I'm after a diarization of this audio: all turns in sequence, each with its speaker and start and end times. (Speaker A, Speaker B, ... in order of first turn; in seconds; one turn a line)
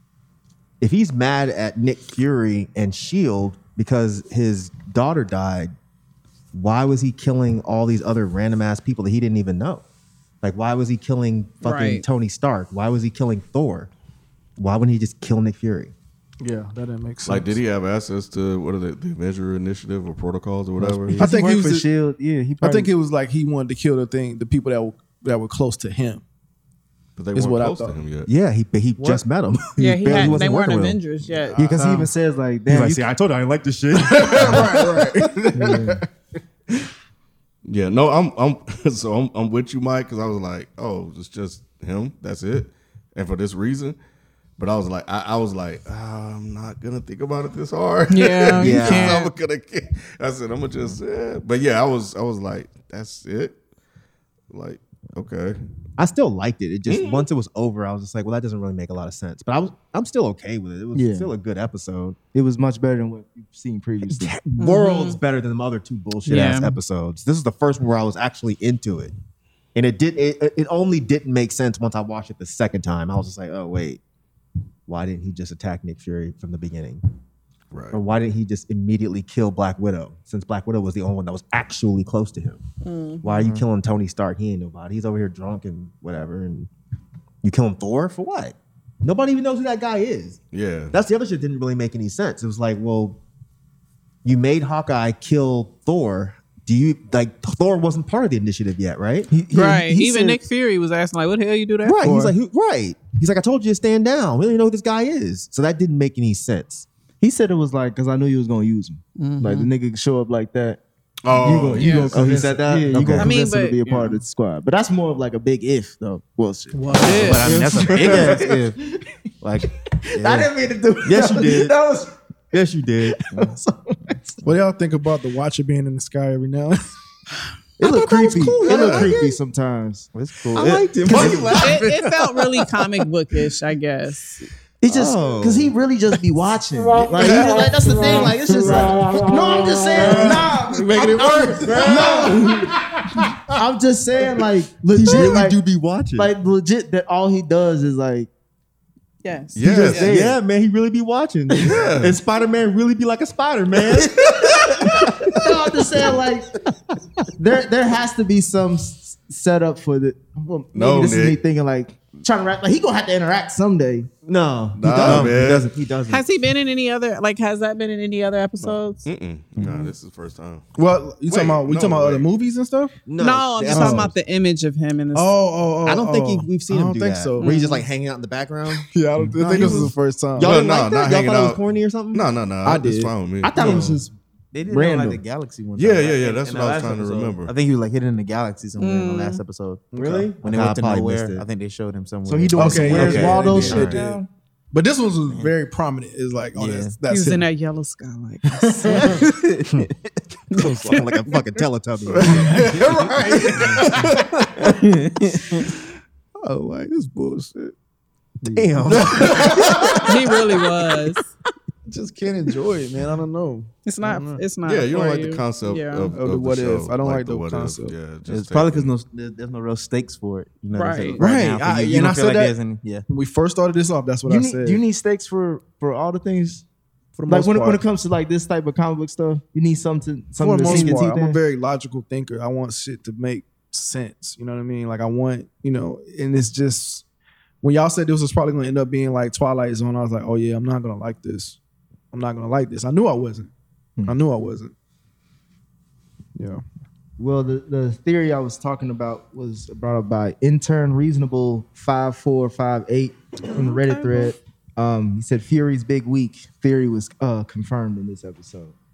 Speaker A: 0.8-5.7
Speaker A: 6.5-9.8
Speaker A: 10.4-13.9
Speaker B: 11.6-12.0
Speaker A: 14.6-15.9
Speaker C: 16.4-17.6
Speaker D: 17.2-21.2
Speaker E: 20.8-22.9
Speaker C: 21.2-21.9
Speaker C: 22.6-26.2
Speaker D: 27.2-28.3
Speaker C: 27.3-28.0
Speaker A: 28.2-31.0
Speaker B: 29.8-31.8
Speaker A: 31.6-32.1
Speaker E: 31.7-33.0
Speaker A: 32.7-35.3
Speaker C: 34.0-36.0
Speaker E: 35.5-36.0
Speaker D: 37.6-44.0
Speaker D: 44.6-53.6
Speaker B: 48.1-49.3
Speaker A: 48.6-49.2
Speaker D: 54.5-55.6
Speaker A: 56.0-62.2
Speaker D: 56.9-57.2
Speaker E: 60.9-61.3
Speaker E: 62.3-64.3
Speaker A: 64.0-69.1
Speaker B: 64.6-65.2
Speaker B: 66.2-66.8
Speaker A: 69.7-74.0
Speaker A: 74.9-77.0
Speaker D: 77.7-78.0
Speaker A: 77.9-82.6
Speaker B: 82.8-83.2
Speaker A: 83.2-86.7
Speaker A: 87.4-90.4
Speaker D: 90.5-91.0
Speaker A: 90.9-93.2
Speaker A: 94.2-99.3
Speaker E: 99.3-100.4
Speaker B: 99.5-102.3
Speaker A: 101.8-106.9
Speaker E: 107.2-110.8
Speaker B: 109.2-109.7
Speaker D: 111.2-112.1
Speaker E: 111.3-118.6
Speaker B: 111.8-112.1
Speaker A: 112.1-113.3
Speaker F: 112.2-112.4
Speaker B: 113.2-114.2
Speaker C: 116.8-117.4
Speaker B: 116.9-117.5
Speaker F: 117.1-118.8
Speaker A: 117.4-118.4
Speaker F: 119.4-120.5
Speaker E: 120.0-122.1
Speaker A: 121.0-121.8
Speaker A: 122.5-123.2
Speaker E: 123.2-124.4
Speaker C: 124.4-127.0
Speaker E: 127.8-130.1
Speaker A: 127.8-129.4
Speaker D: 128.7-129.1
Speaker F: 130.1-131.9
Speaker A: 130.5-131.9
Speaker E: 131.0-131.6
Speaker B: 131.6-134.5
Speaker E: 134.8-142.7
Speaker A: 134.9-135.7
Speaker C: 140.1-141.9
Speaker A: 141.2-142.4
Speaker F: 141.7-142.0
Speaker E: 143.5-145.6
Speaker A: 144.9-146.3
Speaker E: 146.1-148.3
Speaker B: 149.2-150.1
Speaker D: 149.5-150.1
Speaker E: 149.6-150.4
Speaker A: 149.9-155.4
Speaker D: 151.6-152.2
Speaker E: 155.3-156.5
Speaker E: 157.3-164.1
Speaker D: 160.7-161.4
Speaker A: 164.2-166.2
Speaker D: 164.8-165.7
Speaker B: 166.1-169.1
Speaker D: 169.0-170.7
Speaker C: 170.8-172.9
Speaker D: 171.3-172.3
Speaker A: 173.1-174.1
Speaker B: 173.2-175.4
Speaker C: 173.7-174.1
Speaker C: 175.1-177.6
Speaker A: 175.8-178.9
Speaker B: 177.4-177.8
Speaker C: 178.9-180.5
Speaker E: 179.2-179.8
Speaker A: 179.5-182.2
Speaker D: 179.5-179.9
Speaker D: 180.4-181.6
Speaker D: 182.1-183.9
Speaker C: 182.6-183.1
Speaker E: 183.5-184.1
Speaker F: 183.5-194.0
Speaker A: 183.5-183.8
Speaker E: 184.7-185.2
Speaker D: 185.8-187.5
Speaker B: 188.8-189.4
Speaker A: 189.9-191.4
Speaker E: 192.2-194.2
Speaker C: 192.6-194.2
Speaker A: 192.9-194.0
Speaker C: 194.7-197.4
Speaker F: 195.3-195.5
Speaker F: 196.5-197.0
Speaker B: 197.1-199.2
Speaker A: 200.5-203.8
Speaker C: 202.1-204.8
Speaker C: 206.4-207.7
Speaker A: 208.5-210.1
Speaker C: 208.9-210.1
Speaker B: 210.0-211.2
Speaker C: 211.9-214.4
Speaker B: 213.8-216.2
Speaker D: 214.6-218.9
Speaker C: 216.1-217.9
Speaker F: 218.2-223.1
Speaker B: 220.7-221.2
Speaker C: 221.2-222.5
Speaker C: 223.1-224.8
Speaker E: 224.2-226.6
Speaker C: 227.2-227.8
Speaker E: 227.3-231.4
Speaker C: 230.4-237.0
Speaker B: 230.6-231.0
Speaker C: 237.6-241.6
Speaker C: 242.1-243.5
Speaker C: 244.0-244.7
Speaker C: 246.3-246.6
Speaker E: 247.2-258.7
Speaker B: 253.5-254.3